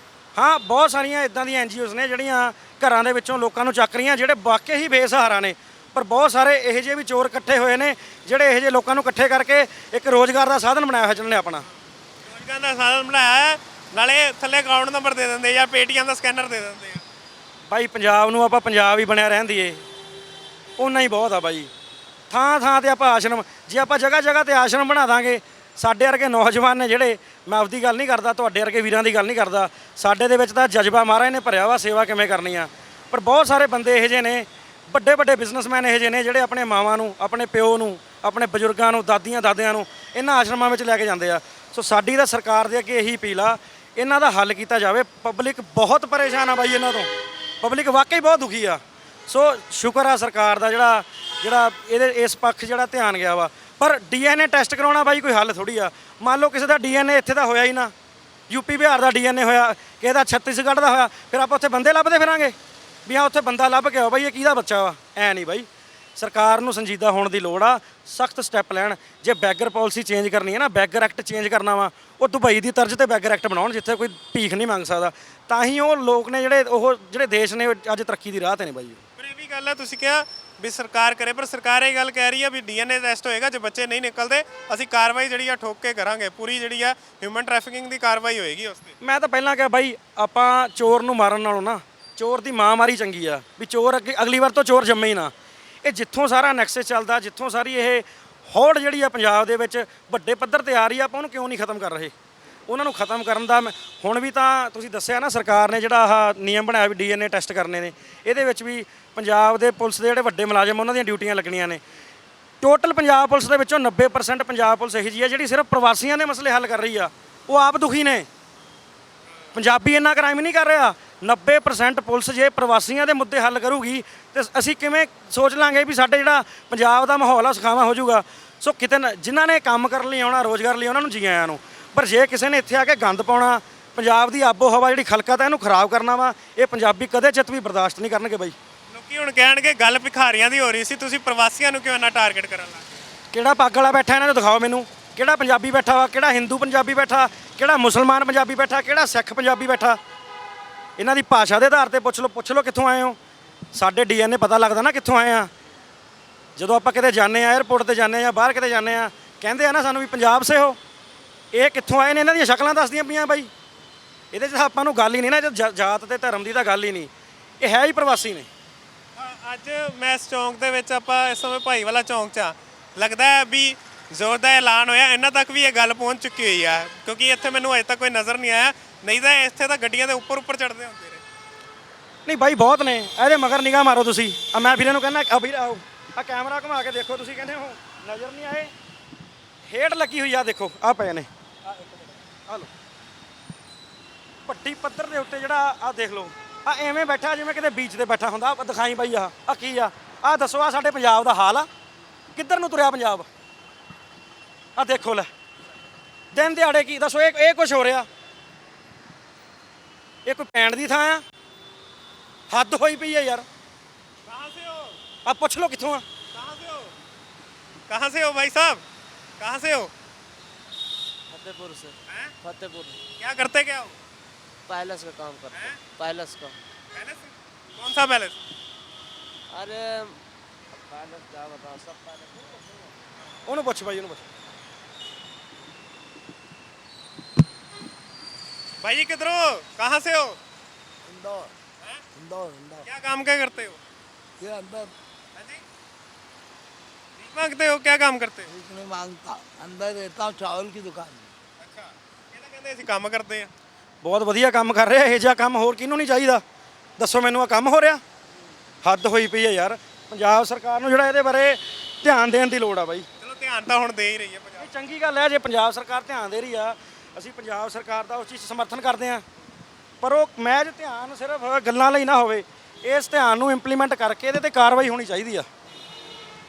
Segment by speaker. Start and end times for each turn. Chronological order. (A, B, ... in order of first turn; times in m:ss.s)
0:00.4-0:11.6 A
0:12.2-0:17.0 B
0:17.7-0:19.8 A
0:20.8-0:21.7 A
0:22.3-0:57.9 A
0:58.5-1:02.5 A
1:03.0-1:19.0 A
1:19.2-1:28.9 B
1:29.0-1:35.3 A
1:35.8-1:42.1 A
1:42.7-1:51.8 A
1:52.6-1:58.3 A
1:59.5-2:18.6 A
2:18.9-2:22.8 B
2:23.3-2:30.0 A
2:31.0-2:33.2 A
2:33.7-2:35.5 A
2:36.6-2:40.8 A
2:41.5-2:43.5 A
2:44.3-2:48.5 A
2:49.2-3:01.2 B
3:02.2-3:08.7 A
3:09.6-3:12.7 A
3:14.4-3:21.7 A
3:22.3-3:23.3 A
3:24.8-3:25.3 A
3:26.3-3:28.1 A
3:30.2-3:31.2 A
3:32.5-3:33.4 A
3:34.2-3:35.0 B
3:35.2-3:36.0 A
3:36.3-3:36.9 B
3:37.9-3:38.8 B
3:39.4-3:39.9 B
3:41.3-3:43.0 C
3:42.1-3:42.3 B
3:43.2-3:44.0 B
3:44.7-3:46.6 C
3:45.5-3:45.8 B
3:46.9-3:48.4 B
3:49.5-3:50.2 C
3:50.8-3:52.6 C
3:53.4-3:54.2 A
3:58.8-4:00.4 B
4:01.1-4:01.5 D
4:02.2-4:02.8 D
4:02.8-4:03.8 B
4:04.4-4:04.9 D
4:05.3-4:05.6 B
4:07.2-4:08.5 B
4:08.5-4:11.3 D
4:11.6-4:13.5 B
4:14.0-4:16.4 A
4:17.0-4:18.0 A
4:18.8-4:23.0 A
4:23.2-4:24.7 B
4:24.6-4:29.2 A
4:30.0-4:35.5 A